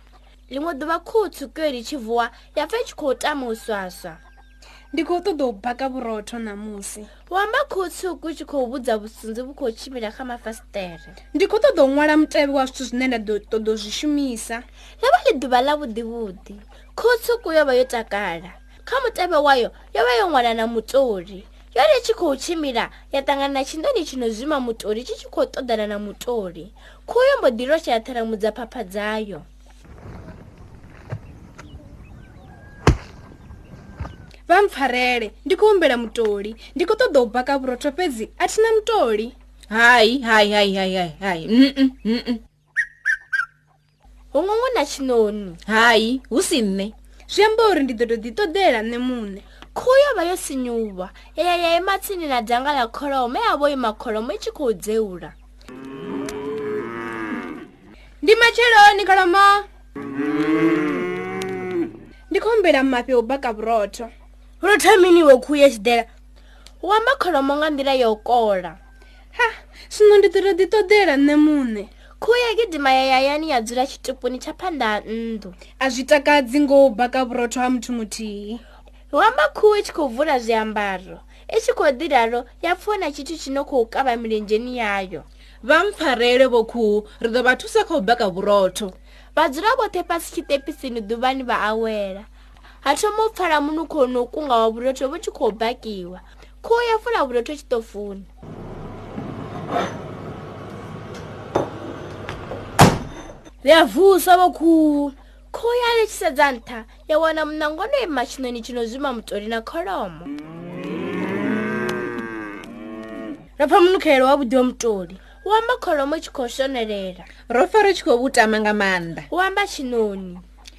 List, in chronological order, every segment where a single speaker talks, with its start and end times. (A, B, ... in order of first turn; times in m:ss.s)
0:00.5-0:04.2 A
0:04.9-0:07.1 B
0:07.2-0:11.2 A
0:11.3-0:14.6 B
0:15.0-0:29.5 A
0:34.5-0:39.3 B
0:39.7-0:42.4 C
0:44.3-0:45.6 A
0:45.7-0:46.9 C
0:47.3-0:49.4 B
0:49.7-0:55.3 A
0:58.2-0:59.6 B
1:02.3-1:04.1 B
1:04.6-1:06.0 A
1:06.8-1:08.8 A
1:09.3-1:11.9 B
1:12.2-1:15.6 A
1:15.8-1:18.6 B
1:19.1-1:25.2 A
1:25.6-1:28.9 C
1:29.3-1:32.3 A
1:32.8-1:38.3 A
1:44.1-1:44.8 A
1:45.5-1:50.3 A
1:54.7-1:57.3 A
1:57.5-1:59.3 C
1:59.3-2:00.4 A